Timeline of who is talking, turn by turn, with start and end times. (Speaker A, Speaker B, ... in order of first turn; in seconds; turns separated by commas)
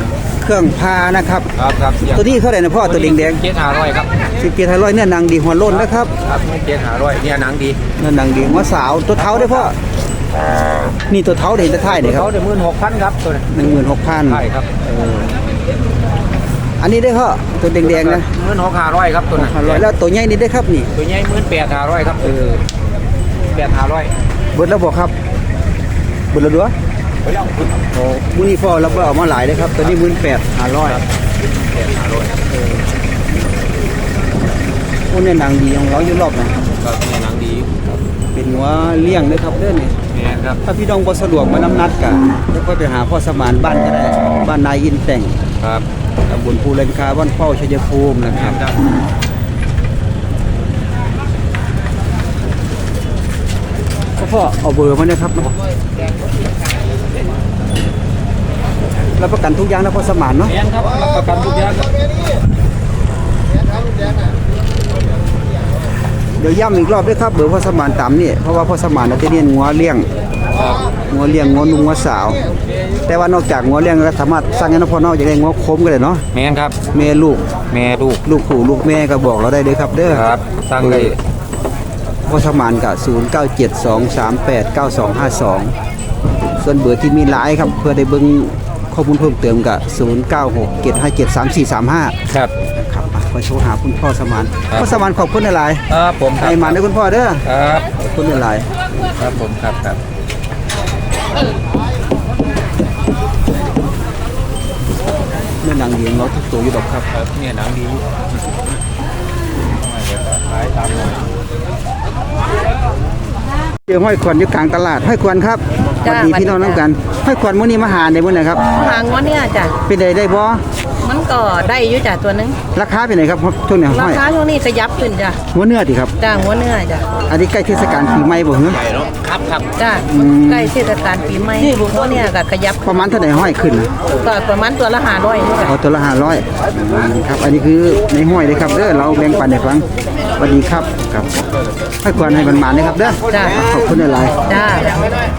Speaker A: 0.4-1.5, Speaker B: 1.6-2.2, Speaker A: 2.1-3.4, Speaker B: 2.8-4.1, Speaker A: 4.4-6.1, Speaker B: 5.7-7.8, Speaker A: 8.0-9.7, Speaker B: 9.2-9.7, Speaker A: 11.1-12.3, Speaker B: 11.9-13.5, Speaker A: 13.5-15.4, Speaker B: 14.2-14.7, Speaker A: 16.8-18.3, Speaker B: 17.8-19.8, Speaker A: 19.3-20.9, Speaker B: 20.9-22.6, Speaker B: 23.5-24.1, Speaker A: 24.5-25.1, Speaker A: 26.3-26.7, Speaker A: 27.9-31.0, Speaker B: 31.6-32.4, Speaker A: 35.1-36.5, Speaker B: 36.8-38.0, Speaker A: 38.3-39.9, Speaker B: 40.1-40.6, Speaker A: 40.6-45.4, Speaker B: 45.6-45.8, Speaker A: 46.3-48.6, Speaker A: 54.2-55.5, Speaker A: 59.2-60.5, Speaker B: 60.5-61.9, Speaker A: 66.4-70.1, Speaker A: 71.1-72.4, Speaker A: 73.1-76.2, Speaker B: 76.3-76.8, Speaker A: 76.9-77.5, Speaker B: 77.7-78.2, Speaker A: 78.2-80.2, Speaker B: 80.1-81.2, Speaker A: 80.8-81.1, Speaker A: 82.2-85.7, Speaker A: 86.6-92.2, Speaker B: 92.3-92.5, Speaker A: 92.7-95.8, Speaker B: 95.9-96.8, Speaker A: 96.3-97.4, Speaker B: 97.5-97.8, Speaker A: 98.0-98.7, Speaker B: 99.2-100.0, Speaker A: 105.6-107.0, Speaker B: 107.1-108.2, Speaker B: 109.8-111.2, Speaker A: 113.9-118.6, Speaker C: 116.0-116.9, Speaker C: 118.7-119.8, Speaker A: 119.8-120.6, Speaker C: 121.0-122.6, Speaker A: 122.7-124.2, Speaker C: 123.9-125.4, Speaker A: 125.5-126.1, Speaker C: 126.2-127.1, Speaker A: 127.3-128.8, Speaker B: 128.8-129.7, Speaker C: 129.8-132.9, Speaker A: 130.1-130.7, Speaker A: 132.8-133.9, Speaker C: 134.1-135.7, Speaker A: 135.6-141.3, Speaker A: 142.0-144.5, Speaker C: 143.3-143.6, Speaker C: 144.4-145.1